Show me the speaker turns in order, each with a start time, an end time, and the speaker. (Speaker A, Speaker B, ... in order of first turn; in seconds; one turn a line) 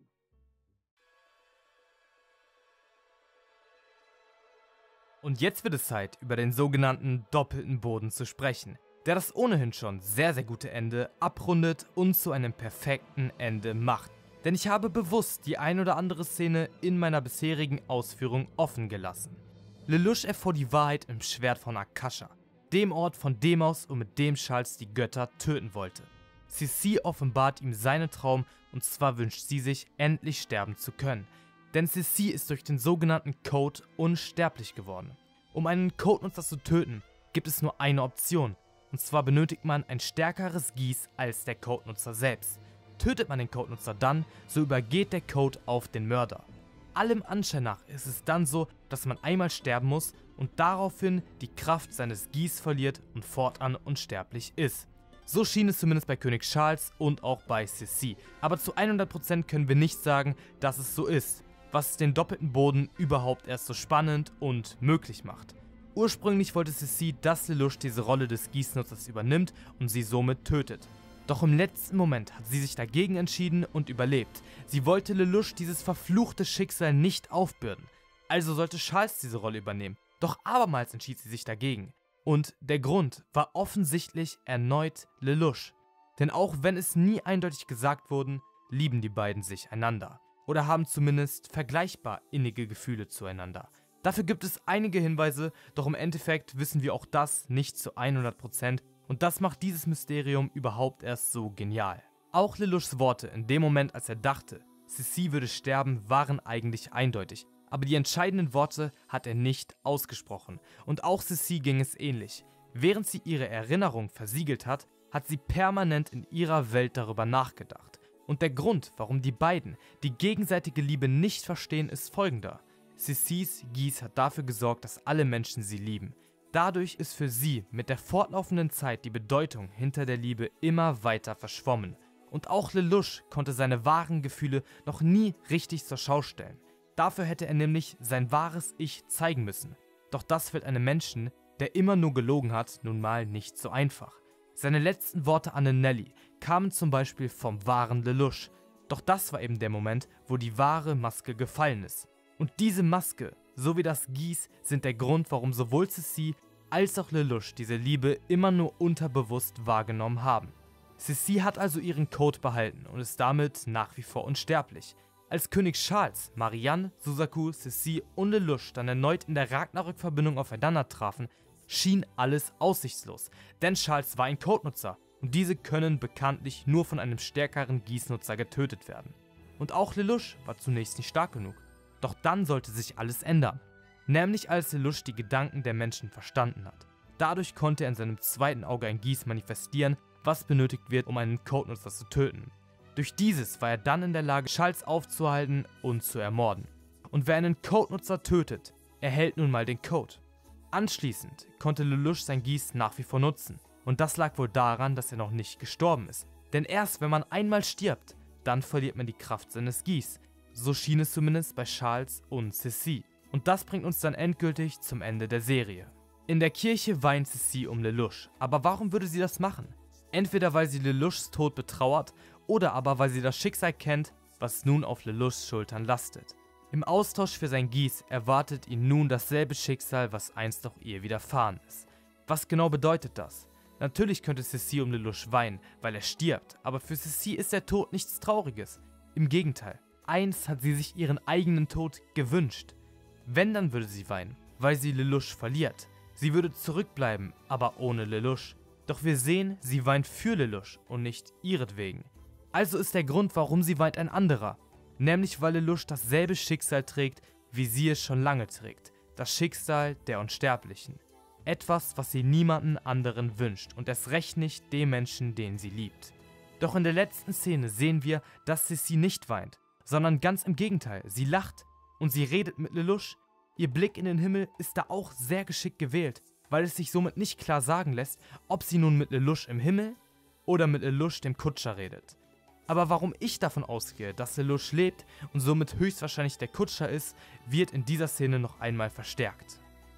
Speaker A: 5.2-282.2
Speaker A: 282.7-289.6